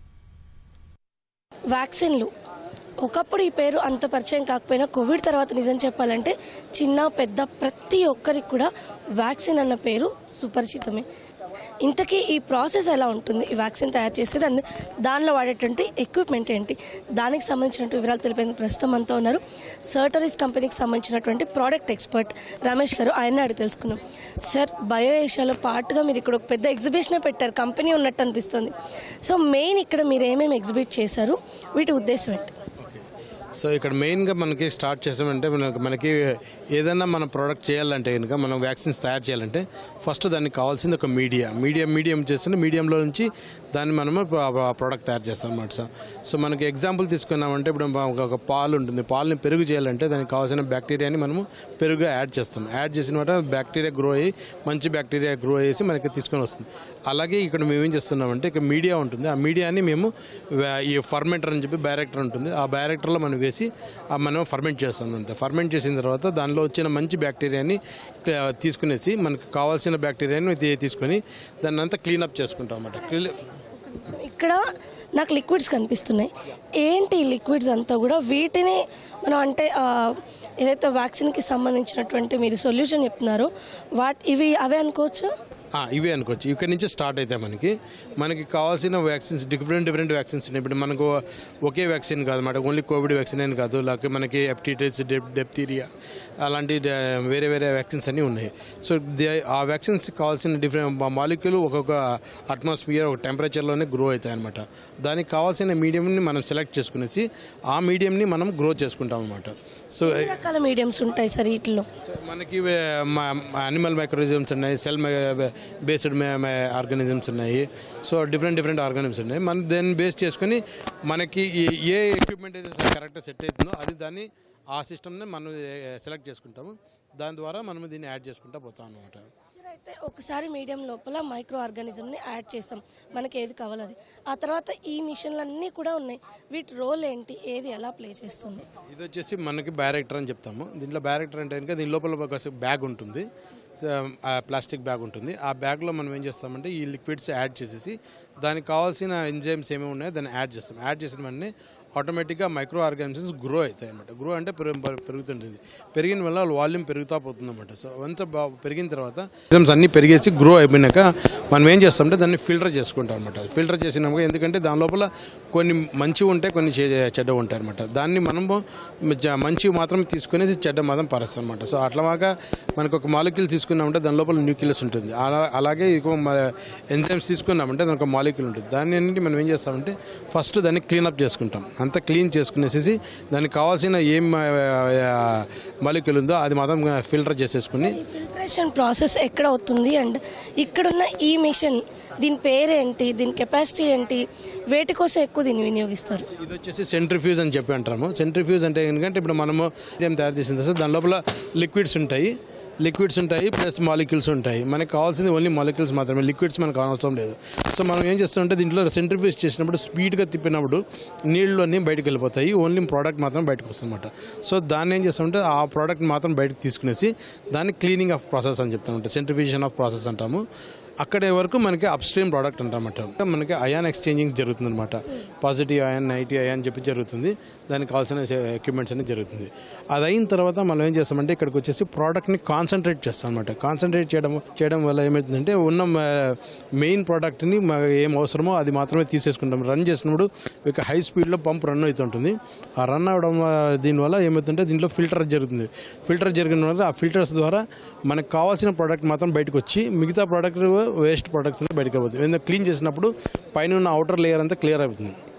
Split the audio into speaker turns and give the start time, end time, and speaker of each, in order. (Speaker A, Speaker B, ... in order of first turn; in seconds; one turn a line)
Speaker A: 1.7-2.3
Speaker A: 3.0-11.0
Speaker A: 11.8-32.5
Speaker B: 32.8-33.0
Speaker B: 33.5-73.4
Speaker A: 73.8-74.6
Speaker A: 75.2-76.3
Speaker A: 76.8-83.5
Speaker A: 84.0-85.3
Speaker B: 85.7-95.9
Speaker B: 96.4-110.4
Speaker A: 110.0-111.8
Speaker B: 112.0-129.3
Speaker A: 129.6-138.7
Speaker B: 138.9-143.2
Speaker B: 143.8-188.0
Speaker A: 187.8-196.3
Speaker B: 196.3-220.4
Speaker B: 221.0-255.2